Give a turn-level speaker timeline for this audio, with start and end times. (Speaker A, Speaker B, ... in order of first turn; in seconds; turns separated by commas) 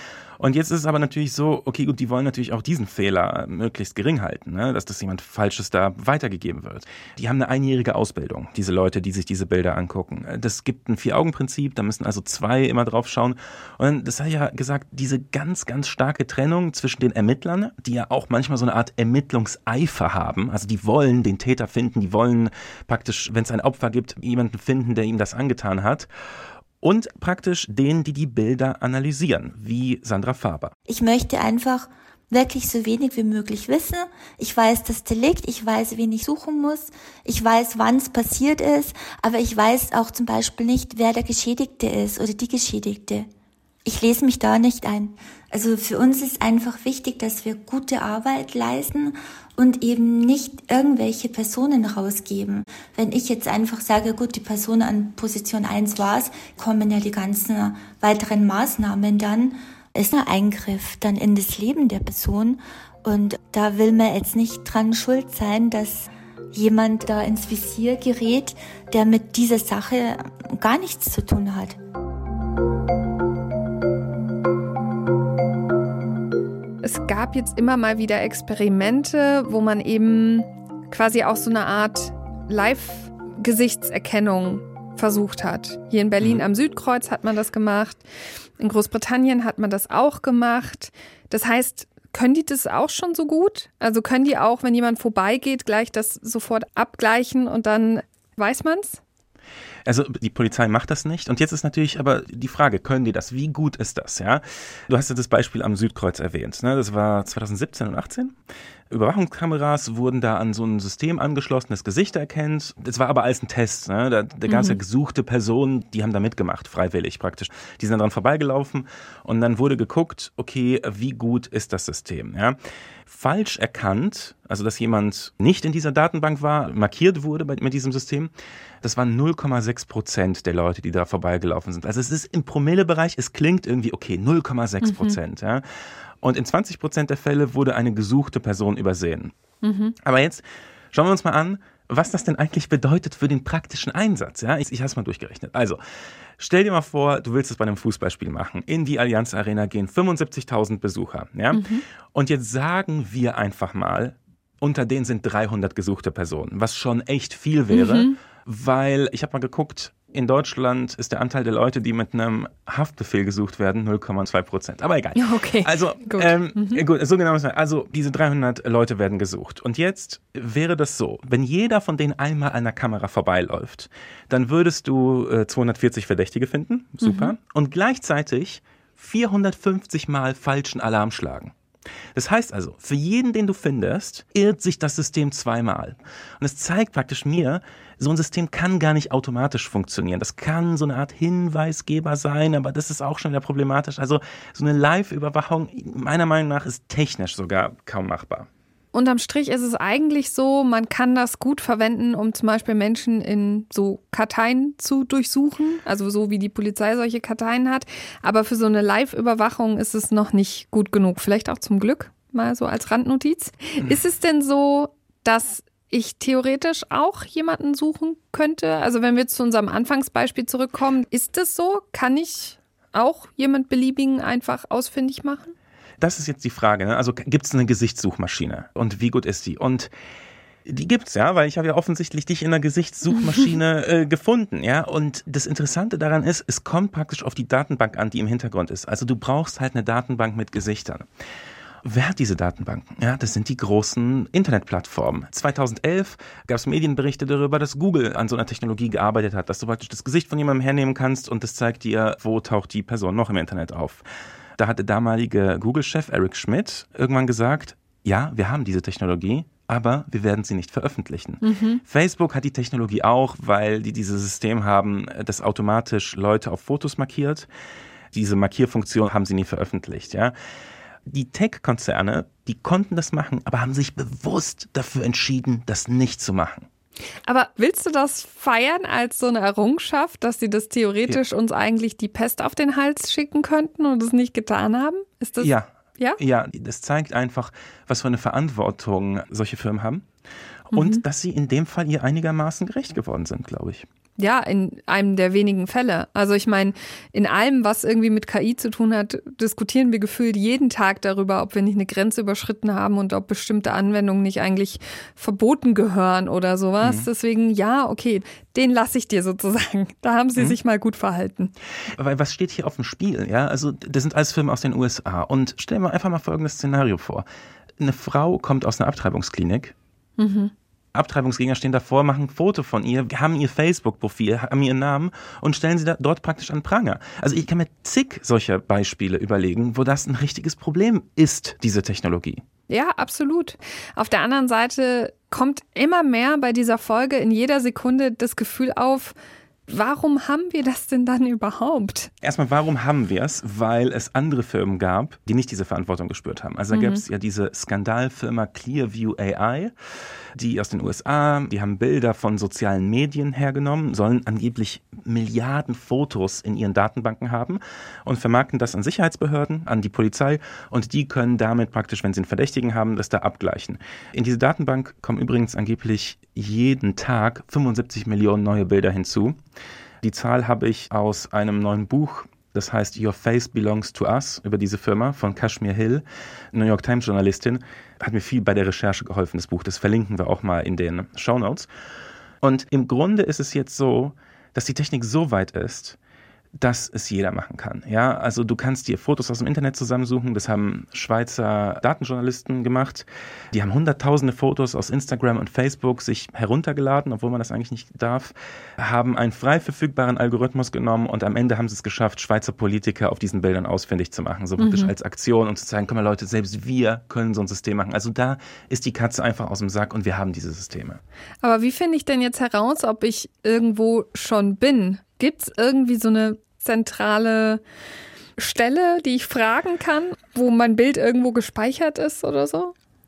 Speaker A: 0.4-26.1, Speaker A: 26.8-30.7, Speaker B: 30.9-43.3, Speaker B: 43.8-71.8, Speaker C: 76.8-88.0, Speaker C: 88.6-99.0, Speaker A: 99.8-108.3, Speaker A: 108.9-128.3, Speaker C: 114.5-114.8, Speaker A: 128.8-135.6, Speaker C: 134.8-135.2, Speaker A: 136.2-139.3, Speaker C: 139.6-139.9, Speaker A: 140.0-145.8, Speaker A: 146.4-181.5, Speaker C: 151.5-151.8, Speaker C: 157.7-158.2, Speaker C: 165.2-166.8, Speaker C: 177.0-177.3, Speaker A: 182.1-198.5, Speaker C: 198.9-225.5, Speaker A: 226.0-229.9, Speaker A: 230.7-241.1, Speaker A: 241.8-254.0, Speaker A: 254.6-267.5, Speaker C: 261.4-261.8, Speaker A: 268.1-270.3, Speaker A: 271.1-276.7, Speaker C: 277.2-286.2, Speaker A: 285.4-290.1, Speaker A: 290.7-293.9, Speaker C: 290.7-291.0, Speaker C: 294.2-311.5, Speaker A: 311.9-317.2, Speaker A: 317.8-319.7, Speaker C: 320.2-320.5, Speaker A: 320.9-332.4, Speaker C: 332.7-339.1, Speaker C: 339.7-342.1, Speaker A: 342.2-349.7, Speaker C: 346.7-347.0, Speaker A: 350.3-369.4, Speaker A: 370.0-381.7, Speaker A: 382.4-386.0, Speaker A: 386.6-411.0, Speaker C: 404.6-404.9, Speaker C: 411.4-417.6, Speaker C: 418.4-422.7